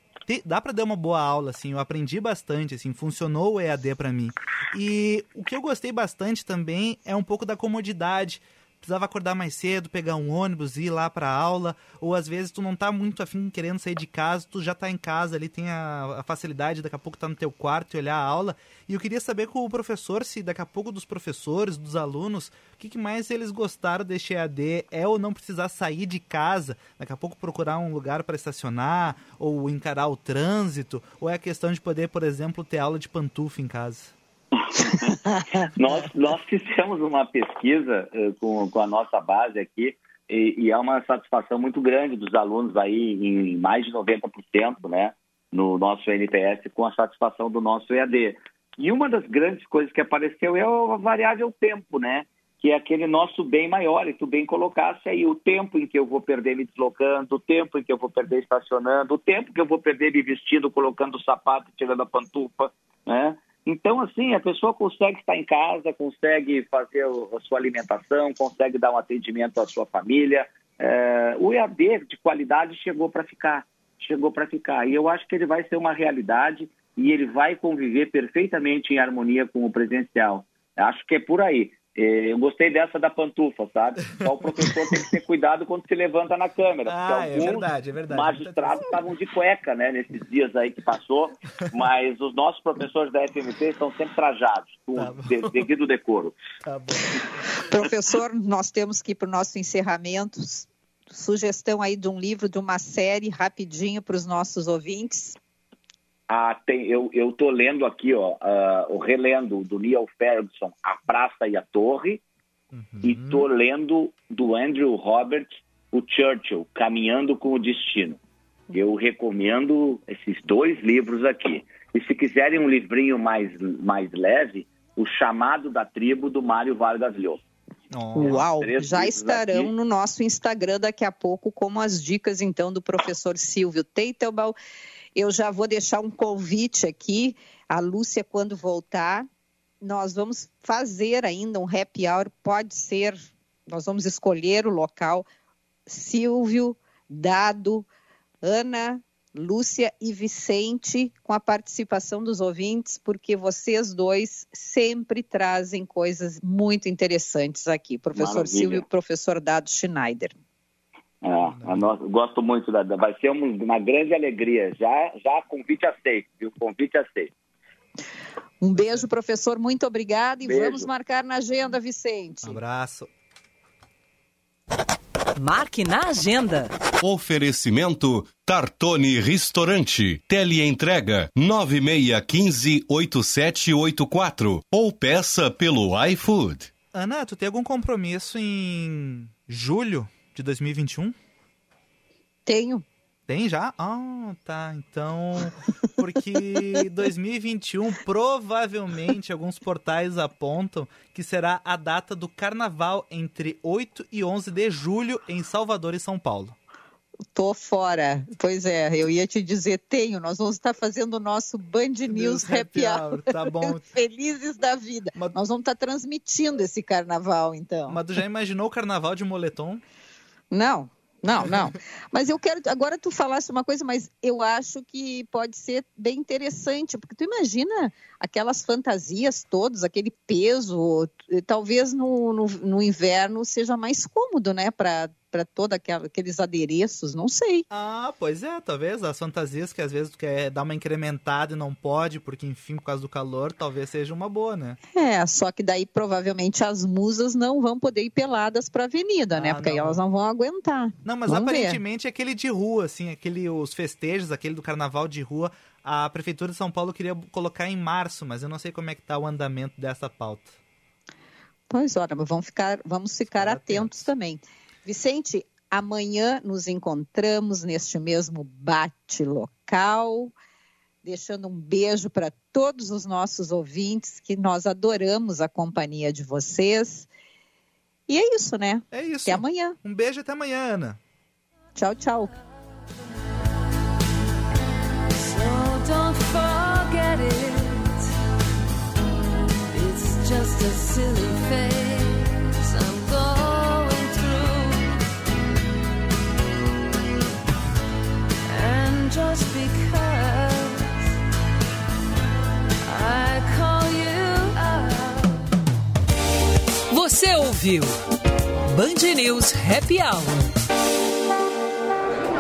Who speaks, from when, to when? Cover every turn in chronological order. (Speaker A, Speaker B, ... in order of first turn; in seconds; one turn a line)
Speaker A: 0.3-34.1
Speaker B: 34.6-96.4
Speaker A: 86.9-88.9
Speaker A: 95.0-95.7
Speaker A: 96.6-97.6
Speaker C: 97.7-105.4
Speaker B: 106.3-112.2
Speaker A: 112.7-113.5
Speaker B: 113.0-118.2
Speaker B: 118.7-127.4
Speaker A: 127.9-128.5
Speaker C: 128.2-134.6
Speaker B: 128.2-129.7
Speaker C: 135.2-139.3
Speaker C: 139.8-145.3
Speaker C: 145.9-147.9
Speaker C: 148.4-160.3
Speaker B: 158.2-158.8
Speaker B: 161.2-167.3
Speaker A: 161.4-161.9
Speaker C: 168.6-172.6
Speaker A: 168.7-169.1
Speaker B: 170.4-170.9
Speaker A: 172.4-173.1
Speaker D: 175.4-176.7
Speaker E: 177.0-186.7
Speaker A: 186.9-191.2
Speaker C: 192.5-192.8
Speaker A: 193.3-206.6
Speaker C: 207.3-218.0
Speaker A: 212.1-213.8
Speaker A: 217.9-219.8
Speaker C: 220.5-237.7
Speaker A: 237.7-244.8
Speaker C: 244.9-251.8
Speaker A: 249.4-250.0
Speaker A: 251.1-260.6
Speaker C: 261.7-270.3
Speaker A: 263.3-264.1
Speaker C: 271.0-277.1
Speaker C: 278.1-279.8
Speaker A: 278.9-281.0
Speaker C: 281.8-282.3
Speaker D: 285.2-288.1
Speaker D: 289.7-295.0
Speaker D: 298.5-301.0
Speaker D: 302.9-305.4
Speaker D: 306.9-307.9
Speaker D: 308.7-310.5